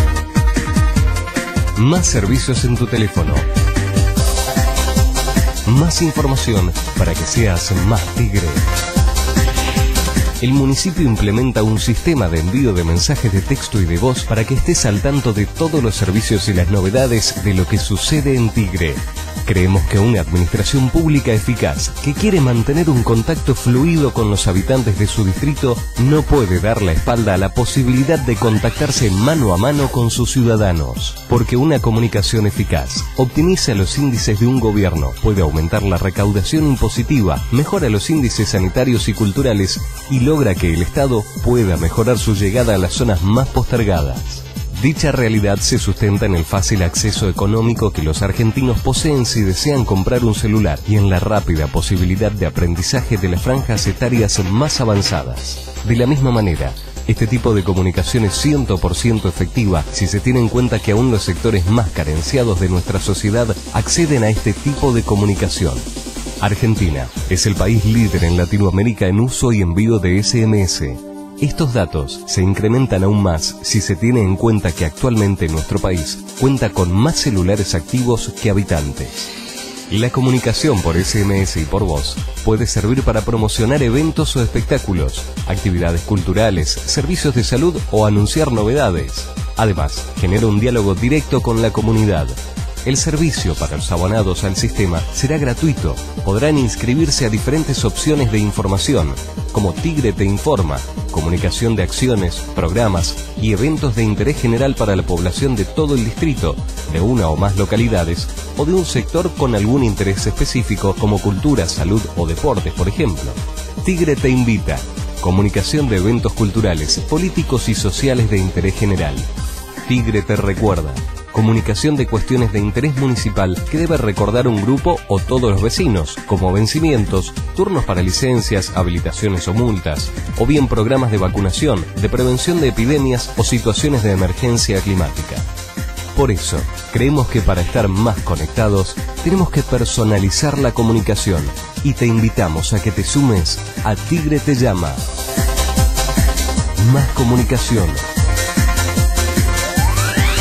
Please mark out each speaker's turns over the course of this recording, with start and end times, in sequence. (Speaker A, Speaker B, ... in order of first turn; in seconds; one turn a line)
Speaker A: 1.7-3.5
Speaker A: 5.6-8.7
Speaker A: 10.4-65.9
Speaker A: 66.4-79.3
Speaker A: 79.9-119.3
Speaker A: 119.8-135.5
Speaker A: 136.1-145.0
Speaker A: 146.8-148.0